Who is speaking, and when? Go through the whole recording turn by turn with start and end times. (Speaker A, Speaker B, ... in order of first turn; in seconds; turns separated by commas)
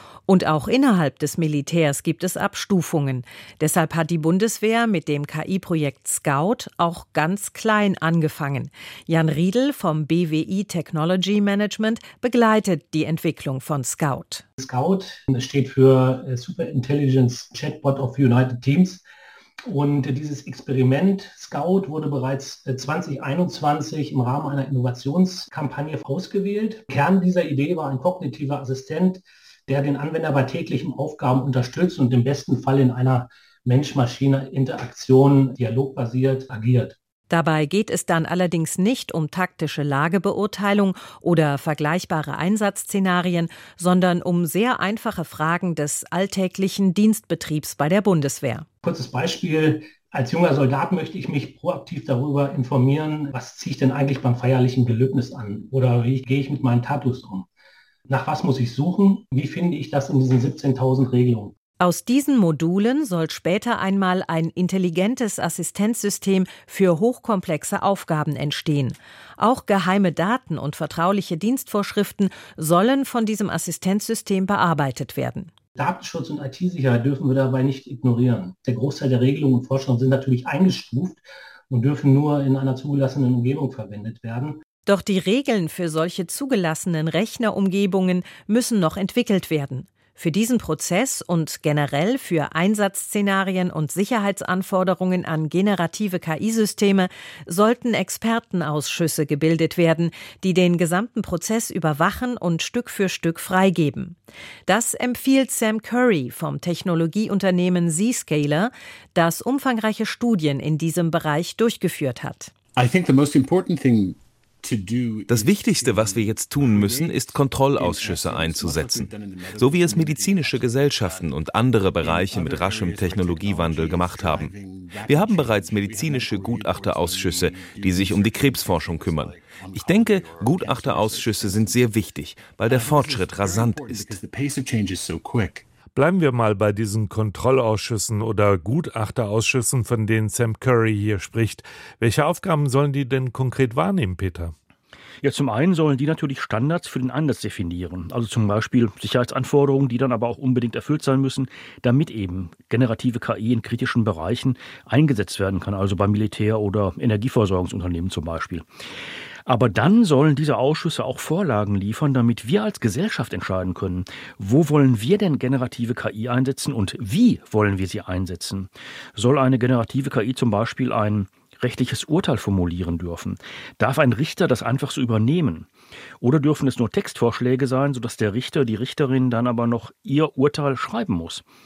Speaker A: 0.3-14.4, Speaker B: 14.6-19.0, Speaker B: 19.7-37.0, Speaker A: 37.3-48.7, Speaker B: 48.8-57.5, Speaker B: 58.1-61.5, Speaker A: 61.8-75.5, Speaker B: 75.8-84.6, Speaker A: 84.9-104.2, Speaker A: 104.7-112.5, Speaker C: 112.8-131.9, Speaker D: 115.3-134.2, Speaker C: 132.7-135.7, Speaker E: 135.9-144.5, Speaker F: 145.2-158.7, Speaker F: 159.5-175.7, Speaker F: 176.2-181.4